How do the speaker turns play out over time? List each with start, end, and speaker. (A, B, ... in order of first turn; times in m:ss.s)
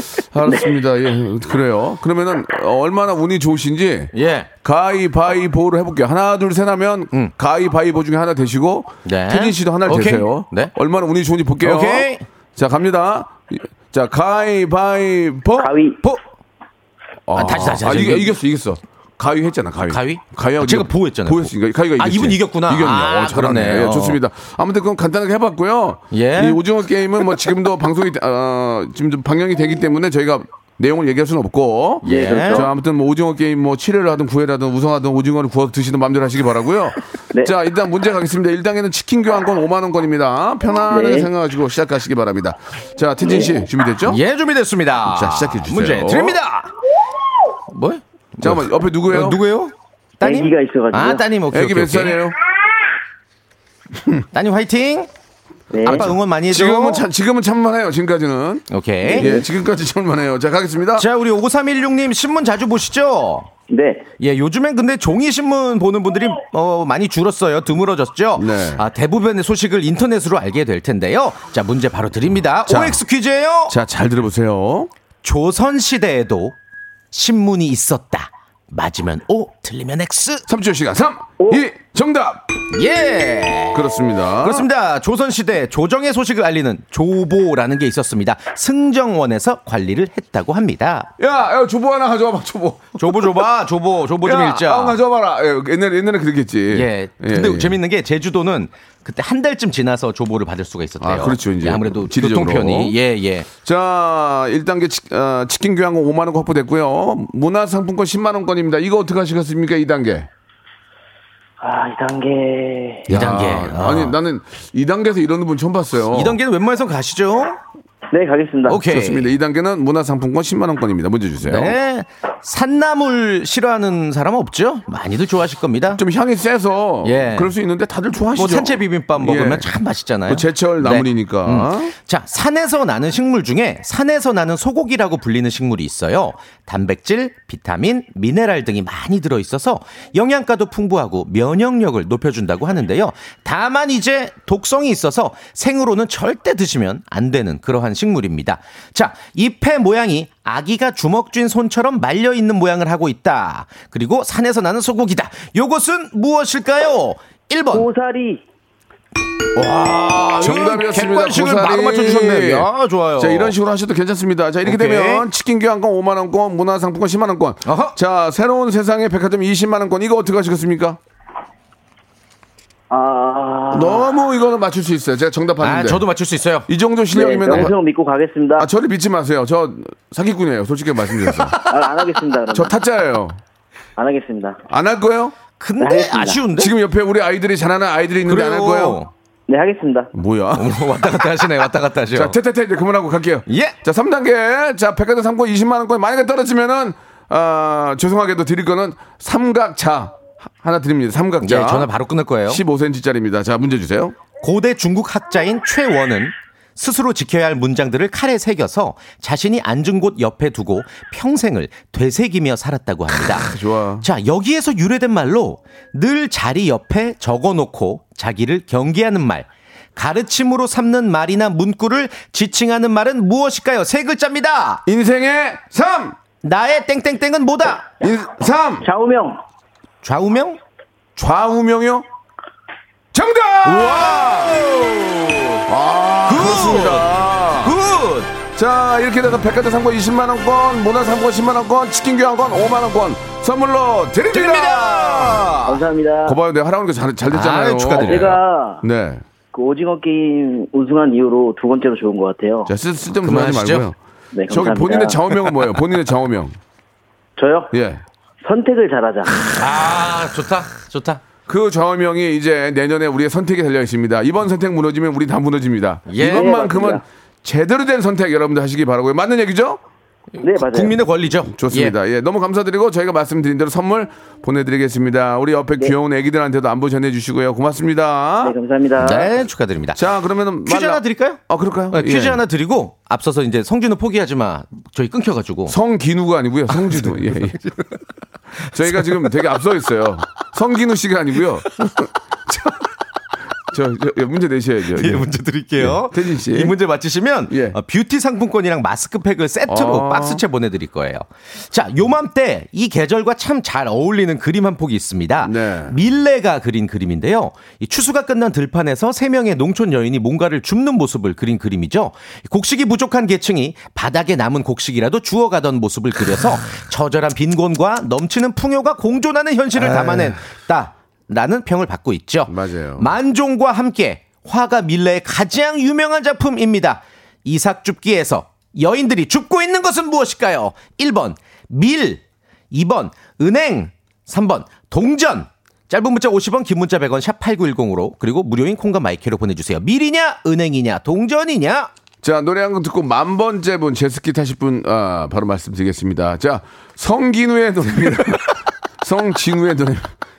0:00.2-0:04.1 A
0:04.1-0:04.5 B
0:04.6-0:15.7 A
0:09.0-0:10.7 B
0:11.6-0:12.2 B
0:15.6-0:16.0 C
0:17.3-0:44.2 A
0:17.3-0:18.3 B
0:19.9-0:24.2 B
0:26.1-0:26.6 B
0:32.0-0:32.7 B
0:32.0-0:32.7 C
0:40.9-0:41.3 C
0:43.2-0:43.5 C
0:44.0-0:46.7 B
0:45.0-0:46.4 A
0:47.7-0:52.2 B
0:48.4-0:49.4 A
0:50.2-0:51.3 C
0:51.5-0:52.4 A
0:54.3-0:55.1 B
0:55.7-0:56.1 C
0:55.8-0:57.0 B
0:55.8-1:01.1 A
0:58.7-0:59.3 B
0:59.1-0:59.4 C
1:01.0-1:03.5 B
1:03.7-1:04.0 C
1:04.2-1:13.8 B
1:08.4-1:08.8 A
1:12.7-1:13.0 A
1:13.7-1:14.9 A
1:15.2-1:16.5 B
1:17.1-1:20.4 B
1:20.5-1:22.4 A
1:22.7-1:23.8 B
1:23.7-1:24.7 A
1:24.4-1:31.1 B
1:31.2-1:33.4 A
1:33.0-1:35.0 B
1:34.2-1:37.8 A
1:36.7-1:43.5 B
1:41.0-1:43.0 A
1:43.6-1:50.3 A
1:51.6-1:53.1 C
1:53.1-1:54.2 B
1:53.1-1:56.4 A
1:56.1-1:57.6 B
1:58.1-1:58.8 C
1:58.7-1:59.3 B
1:58.9-2:01.8 A
2:01.4-2:06.0 B
2:06.0-2:09.7 A
2:07.0-2:07.5 B
2:08.3-2:37.9 B
2:10.2-2:11.9 A
2:37.7-2:38.4 C
2:39.5-2:43.5 B
2:40.4-2:51.0 A
2:44.6-2:45.2 B
2:47.6-2:48.0 B
2:52.9-2:54.1 C
2:53.7-2:56.0 A
2:55.6-2:56.7 B
2:56.7-2:57.7 A
2:57.1-2:58.7 C
2:58.6-3:01.6 A
3:01.7-3:02.8 C
3:02.5-3:03.4 A
3:04.0-3:04.6 C
3:04.7-3:05.4 A
3:05.6-3:06.7 B
3:05.8-3:06.4 C
3:06.6-3:09.0 A
3:08.2-3:09.1 B
3:09.5-3:10.1 C
3:10.1-3:21.9 A
3:10.5-3:12.4 B
3:13.5-3:13.8 B
3:21.4-3:22.6 B
3:22.5-3:24.2 A
3:24.4-3:44.8 B
3:33.3-3:34.0 A
3:44.8-3:46.2 A
3:46.4-3:47.9 B
3:48.0-3:48.8 A
3:48.8-3:49.4 C
3:50.0-3:50.6 B
3:51.2-3:52.0 A
3:53.1-3:54.6 A
3:53.6-3:55.6 B
3:55.7-3:57.8 A
3:56.2-3:57.1 B
3:57.6-3:58.3 B
3:58.5-4:09.2 A
4:04.3-4:05.6 B
4:05.6-4:06.4 C
4:07.3-4:08.4 B
4:08.0-4:08.8 C
4:09.5-4:12.7 C
4:12.6-4:14.0 A
4:13.2-4:13.9 B
4:14.3-4:15.2 C
4:14.5-4:16.6 A
4:17.4-4:17.7 C
4:17.7-4:18.0 A
4:18.4-4:19.5 C
4:19.5-4:21.2 B
4:21.5-4:29.8 A
4:26.1-4:26.5 B
4:26.2-4:27.0 C
4:30.4-4:32.0 B
4:30.4-4:31.0 C
4:31.5-4:38.6 A
4:38.4-4:39.3 C
4:39.0-4:40.0 B
4:39.9-4:42.4 A
4:40.6-4:41.4 B
4:41.9-4:45.8 B
4:45.7-4:47.6 A
4:48.6-4:49.3 B
4:48.7-4:52.8 A
4:53.7-4:56.8 A
4:55.0-5:41.9 B
4:57.5-4:57.8 A
4:59.7-5:00.4 A
5:05.4-5:06.0 A
5:19.7-5:20.4 A
5:22.4-5:23.1 A
5:42.2-5:48.4 A
5:49.0-5:50.1 A